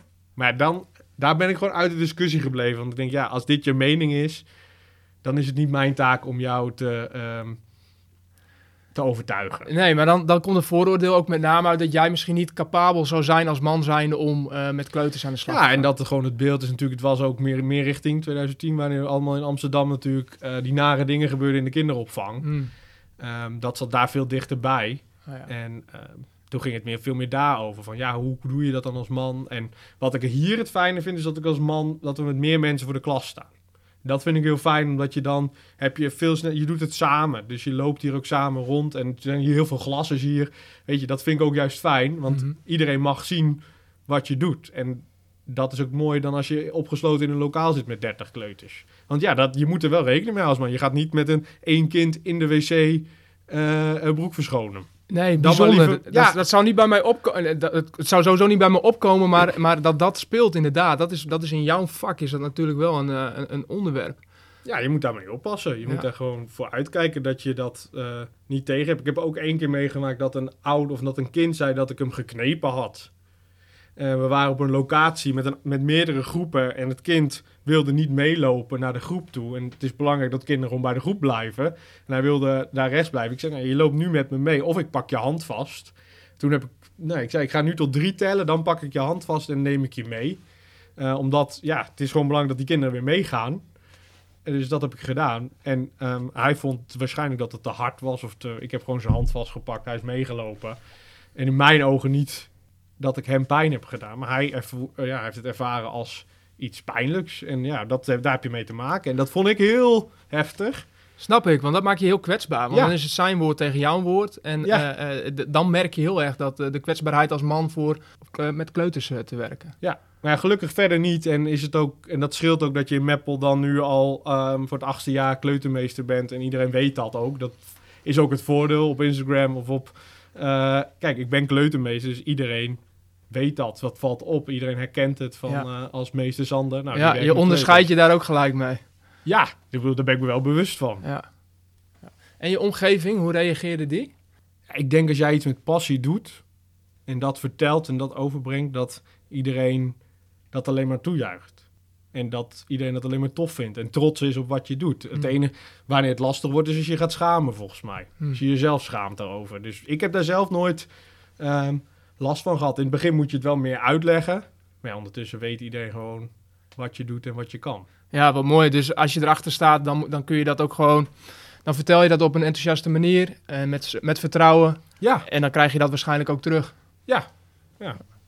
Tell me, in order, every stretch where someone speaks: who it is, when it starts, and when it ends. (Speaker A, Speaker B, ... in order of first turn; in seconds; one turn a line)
Speaker A: 0.3-4.5
Speaker A: 5.2-7.6
Speaker A: 8.9-9.7
Speaker B: 9.7-15.9
Speaker A: 15.5-22.5
Speaker B: 22.4-22.7
Speaker A: 23.2-33.5
Speaker A: 34.0-56.4
Speaker B: 55.1-64.2
Speaker A: 64.6-73.1
Speaker A: 74.0-90.4
Speaker A: 91.0-93.6
Speaker A: 94.4-100.8
Speaker A: 101.3-110.8
Speaker B: 111.2-119.7
Speaker A: 119.8-137.8
Speaker B: 136.9-138.8
Speaker A: 139.2-141.0
Speaker B: 142.1-144.1
Speaker A: 144.7-146.4
Speaker A: 147.1-150.0
Speaker A: 150.5-151.6
Speaker A: 152.1-160.9
Speaker A: 161.4-167.9
Speaker B: 168.1-171.1
Speaker B: 171.6-176.7